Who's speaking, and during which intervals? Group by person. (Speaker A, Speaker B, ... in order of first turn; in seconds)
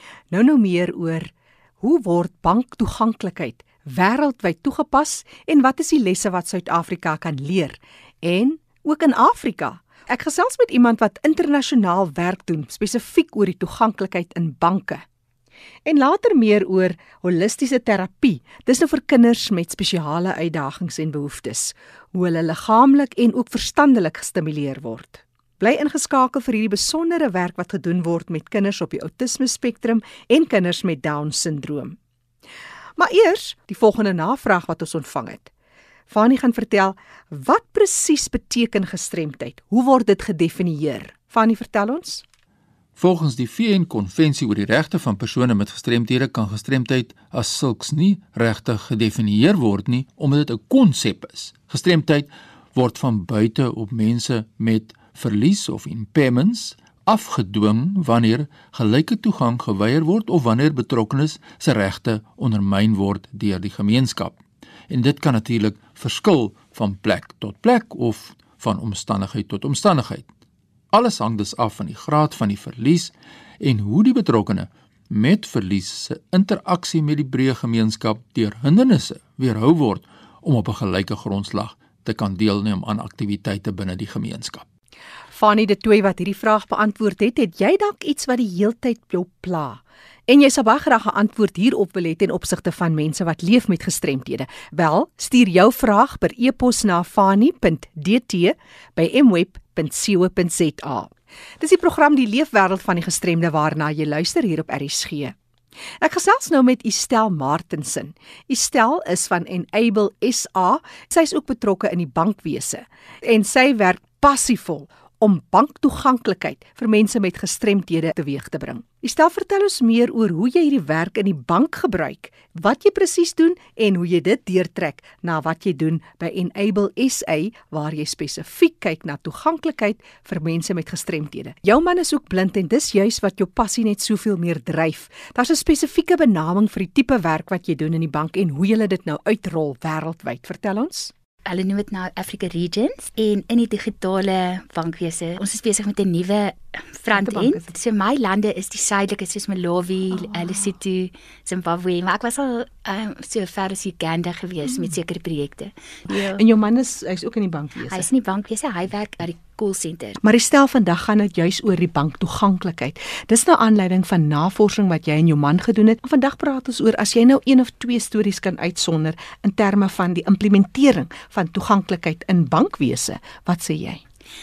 Speaker A: 0.3-15.0, 15.9-32.0, 33.0-35.5, 36.1-42.2, 85.3-105.4, 106.0-141.1, 147.1-147.7, 156.1-158.1, 160.2-174.0
Speaker B: 43.0-70.3, 70.9-84.7
Speaker C: 141.4-156.4, 157.9-160.2